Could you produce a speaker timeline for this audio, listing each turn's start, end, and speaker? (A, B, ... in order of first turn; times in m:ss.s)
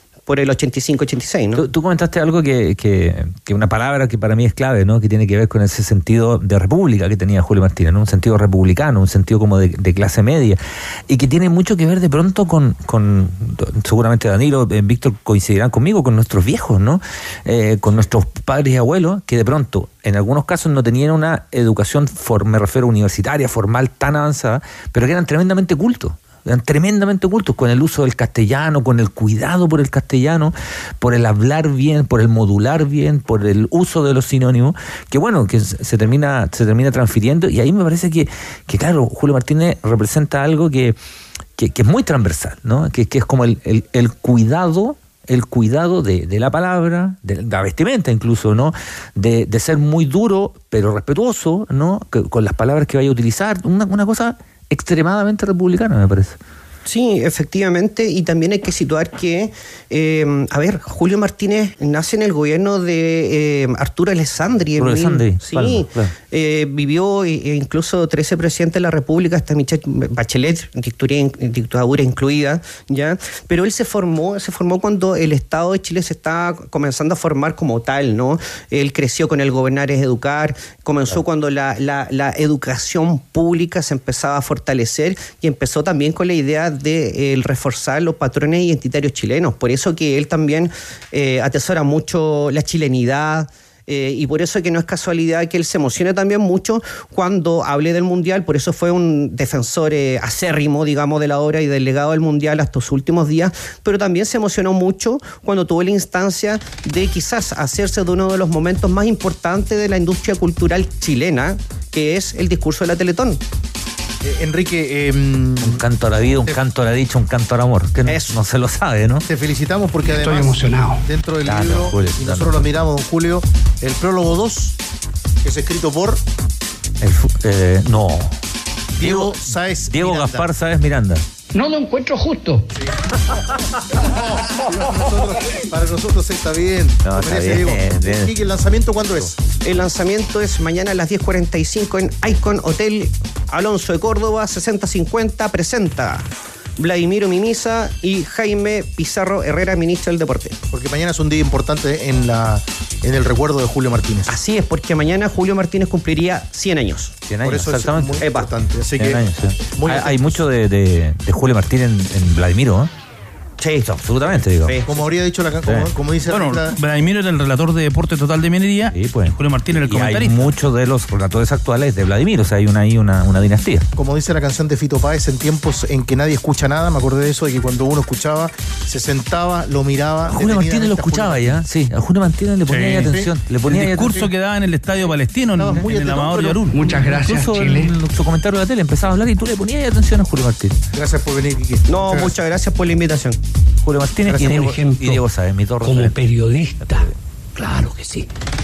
0:00.3-0:01.6 A
0:01.5-0:41.0 B
0:41.6-0:56.4 B
0:56.8-1:53.4 A
1:04.8-1:06.1 B
1:54.2-1:55.8 C
1:55.6-1:59.2 B
1:59.3-2:04.8 C
2:00.0-2:01.0 D
2:01.5-2:02.7 B
2:05.4-2:06.2 C
2:07.0-2:08.4 B
2:09.0-2:10.5 C
2:09.0-2:11.2 B
2:11.6-2:12.7 D
2:13.9-2:19.4 C
2:17.0-2:18.3 B
2:19.6-2:30.6 A
2:30.7-2:34.3 C
2:34.3-2:37.2 A
2:37.3-2:38.4 B
2:37.4-2:40.4 C
2:38.2-2:38.5 A
2:39.0-2:42.9 B
2:43.6-2:45.0 A
2:43.9-2:44.8 B
2:44.8-2:46.8 C
2:45.7-2:45.9 B
2:46.3-2:50.5 E
2:48.9-2:53.9 B
2:54.0-3:01.6 C
3:00.3-3:04.2 B
3:02.7-3:06.9 E
3:03.0-3:03.3 C
3:05.6-3:06.6 C
3:06.7-3:07.9 D
3:06.8-3:10.8 B
3:10.9-3:12.3 C
3:11.9-3:13.4 A
3:13.8-3:16.2 B
3:14.3-3:14.6 C
3:14.4-3:15.2 D
3:15.8-3:18.3 D
3:16.8-3:17.1 B